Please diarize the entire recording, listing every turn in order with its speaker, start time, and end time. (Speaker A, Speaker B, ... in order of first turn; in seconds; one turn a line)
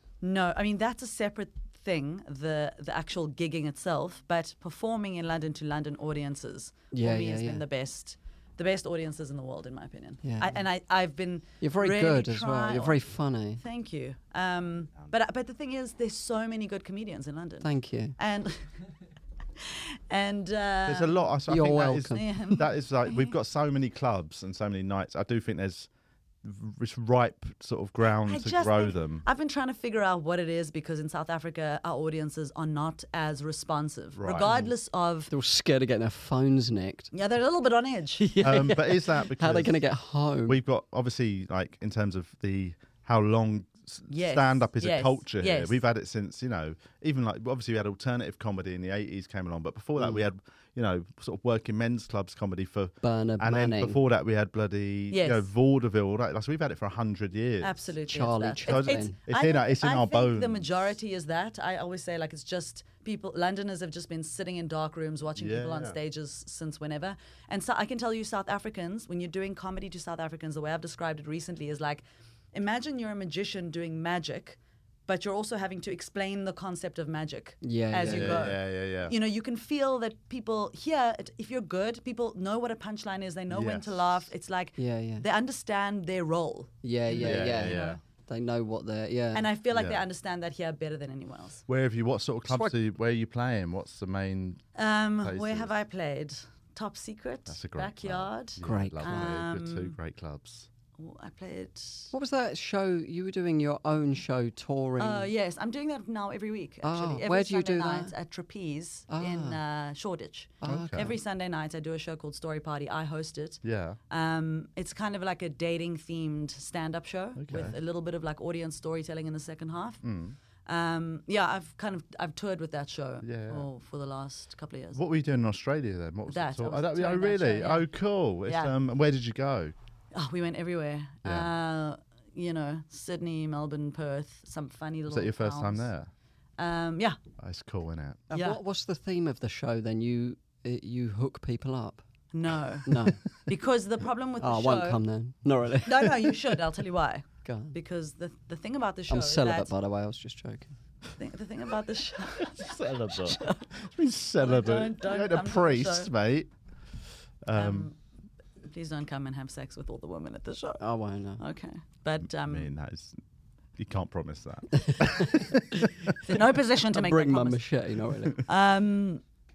Speaker A: 0.2-13.0
Speaker B: 6.9-7.6
Speaker B: 10.2-10.6
Speaker B: 11.6-13.6
Speaker A: 13.6-18.6
Speaker B: 17.6-18.1
Speaker A: 19.6-23.3
Speaker C: 20.9-25.9
Speaker B: 21.5-22.2
Speaker C: 26.4-29.2
Speaker A: 28.2-35.3
Speaker C: 34.1-34.5
Speaker B: 34.4-34.7
Speaker B: 35.3-37.1
Speaker A: 37.1-38.3
Speaker B: 38.2-40.6
Speaker C: 38.4-39.8
Speaker C: 40.5-57.7
Speaker A: 44.1-45.8
Speaker B: 50.0-50.2
Speaker B: 53.0-54.0
Speaker A: 55.1-55.5
Speaker A: 57.6-72.0
Speaker B: 58.1-59.1
Speaker C: 58.7-60.7
Speaker C: 65.4-66.0
Speaker A: 72.5-88.0
Speaker B: 77.6-78.5
Speaker C: 78.0-79.1
Speaker C: 83.5-84.3
Speaker B: 84.8-85.2
Speaker B: 86.8-89.5
Speaker C: 87.2-88.0
Speaker A: 89.3-91.6
Speaker C: 89.7-90.0
Speaker C: 91.7-94.6
Speaker B: 92.5-92.7
Speaker A: 94.8-99.9
Speaker C: 95.2-95.7
Speaker C: 97.5-100.7
Speaker B: 98.6-99.3
Speaker A: 101.0-102.1
Speaker B: 102.1-105.3
Speaker A: 105.0-120.0
Speaker B: 106.8-108.1
Speaker B: 109.1-109.6
Speaker B: 110.6-111.1
Speaker C: 110.7-111.1
Speaker C: 113.6-114.0
Speaker C: 117.4-117.8
Speaker C: 120.0-120.3
Speaker A: 120.6-125.0
Speaker C: 123.2-123.6
Speaker C: 124.9-129.7
Speaker A: 126.3-127.9
Speaker A: 128.4-128.7
Speaker A: 130.1-135.9
Speaker C: 135.1-136.1
Speaker A: 136.6-137.2
Speaker C: 137.4-138.2
Speaker A: 138.3-138.6
Speaker B: 138.3-142.0
Speaker A: 142.3-145.0
Speaker B: 142.8-143.2
Speaker B: 144.4-146.5
Speaker A: 145.8-149.7
Speaker B: 147.4-147.8
Speaker B: 149.1-150.7
Speaker A: 151.2-153.6
Speaker C: 152.4-156.5
Speaker A: 154.4-156.1
Speaker C: 157.4-157.9
Speaker A: 157.5-157.9
Speaker A: 158.7-160.8
Speaker B: 160.8-161.4
Speaker A: 161.4-162.7
Speaker C: 162.4-163.2
Speaker C: 163.8-166.1
Speaker B: 164.7-165.8
Speaker A: 166.2-167.6
Speaker B: 166.9-168.4
Speaker A: 168.4-169.2